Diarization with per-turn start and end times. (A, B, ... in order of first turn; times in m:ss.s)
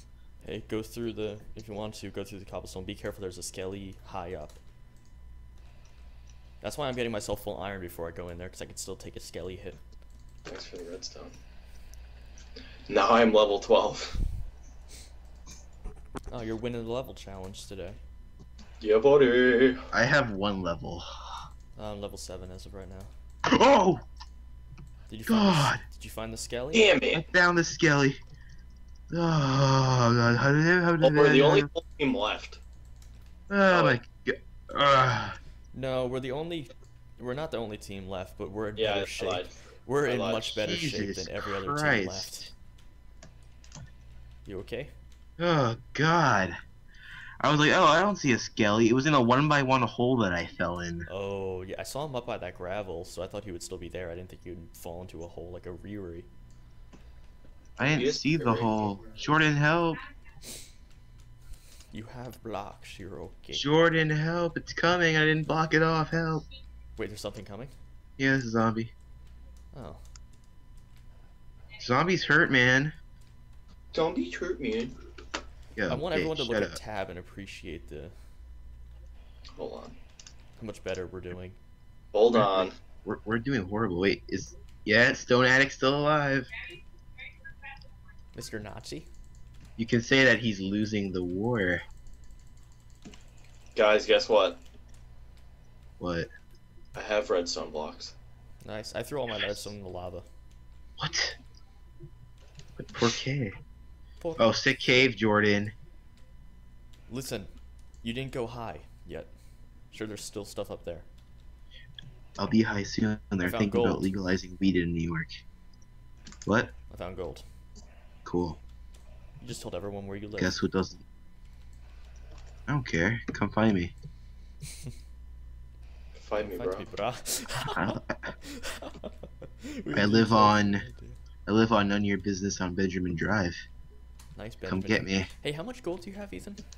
0:00.4-0:04.6 A
0:06.6-0:09.8 A
0:10.4-0:11.4 B
0:12.9-0:14.2 B
0:16.3-0:18.0 A
0:18.8-0:19.9 B
0:19.9-0:21.0 C
0:21.8-0:23.1 A
0:23.5-0:24.0 C
0:25.1-0:26.9 A
0:25.3-0:25.8 C
0:26.7-0:27.3 B
0:27.1-0:28.2 C
0:29.1-0:31.7 C
0:31.0-0:32.6 B
0:33.5-0:35.4 C
0:33.7-0:34.0 B
0:35.7-0:42.5 A
0:38.8-0:39.5 B
0:40.0-0:40.8 B
0:40.6-0:42.5 C
0:44.4-0:44.9 A
0:45.4-0:46.6 C
0:47.4-0:51.1 C
0:51.1-0:56.3 A
0:57.8-0:58.9 B
0:57.8-1:00.0 C
1:01.9-1:03.7 A
1:03.5-1:06.4 C
1:07.0-1:07.7 A
1:08.2-1:08.9 C
1:09.7-1:10.0 A
1:11.8-1:12.9 C
1:13.9-1:15.0 B
1:15.8-1:16.8 C
1:15.9-1:18.1 A
1:19.6-1:20.0 B
1:20.6-1:21.6 A
1:22.1-1:22.8 B
1:23.0-1:26.5 C
1:28.4-1:29.1 A
1:29.8-1:31.8 C
1:33.8-1:34.6 B
1:36.0-1:36.3 C
1:36.9-1:38.1 B
1:38.6-1:40.2 A
1:41.0-1:41.4 C
1:42.8-1:43.5 C
1:44.2-1:44.5 A
1:44.4-1:45.7 C
1:47.1-1:47.5 A
1:48.0-1:49.3 A
1:49.9-1:51.1 A
1:52.4-1:55.4 C
1:53.4-1:54.1 A
1:56.4-1:56.7 C
1:56.9-1:57.4 A
1:58.2-1:58.6 C
1:59.4-2:00.6 A
2:00.4-2:01.0 C
2:02.7-2:03.9 C
2:06.1-2:06.9 B
2:06.4-2:11.2 A
2:07.7-2:08.3 C
2:09.9-2:10.8 C
2:11.4-2:13.6 C
2:14.4-2:16.6 A
2:14.7-2:15.3 C